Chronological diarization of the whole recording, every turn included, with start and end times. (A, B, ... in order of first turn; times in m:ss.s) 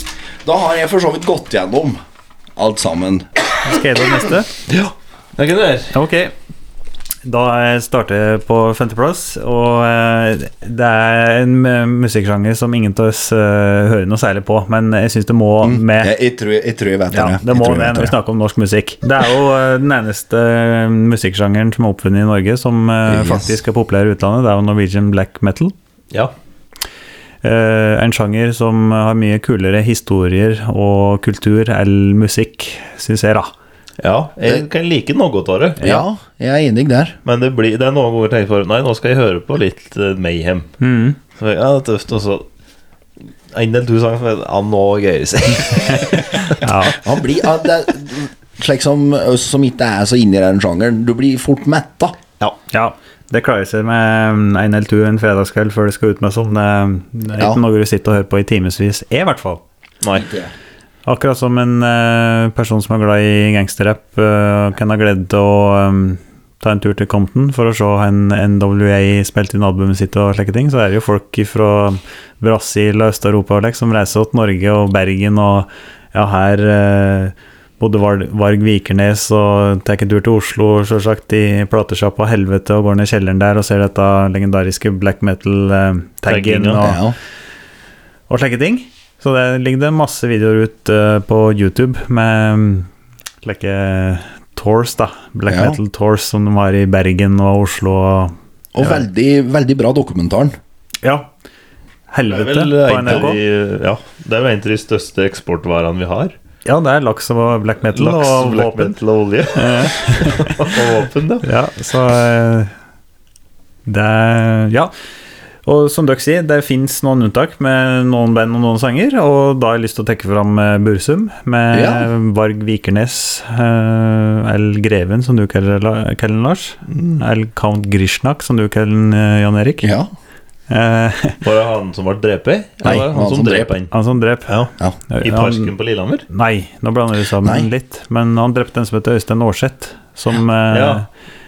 0:00.4-0:02.0 A
0:02.6-0:03.3 A
0:03.6-0:04.5 B
0:04.7-0:05.9 C
0:05.9-0:06.3 B
0:07.2-0:16.1 B
0:15.6-0:18.2 A
0:17.1-0:25.7 B
0:23.1-0:23.5 A
0:27.4-0:33.5 B
0:34.0-0:35.9 C
0:35.8-0:37.2 A
0:37.2-0:40.7 C
0:40.8-0:41.2 B
0:41.4-0:42.4 C
0:43.5-0:46.5 C
0:46.5-0:47.0 B
0:47.0-0:52.2 A
0:52.7-0:59.6 B
1:00.0-1:00.3 C
1:00.2-1:00.5 A
1:01.1-1:27.0 B
1:26.3-1:26.8 C
1:26.8-1:27.2 A
1:28.3-1:32.9 B
1:33.4-1:39.0 B
1:35.5-1:35.8 A
1:38.7-1:40.6 A
1:41.0-1:41.3 B
1:42.1-1:43.4 B
1:42.3-1:46.4 C
1:46.7-1:49.0 B
1:48.0-1:51.4 C
1:49.6-1:50.6 B
1:51.4-1:52.7 B
1:53.9-1:54.9 B
1:55.6-2:09.9 B
2:01.7-2:02.1 A
2:06.9-2:07.2 C
2:09.8-2:10.1 A
2:10.7-2:11.4 B
2:11.4-2:13.9 C
2:12.8-2:13.7 A
2:13.9-2:14.5 B
2:14.5-2:16.2 C
2:15.1-2:15.7 B
2:16.3-2:21.1 B
2:17.4-2:17.7 A
2:20.7-2:21.0 C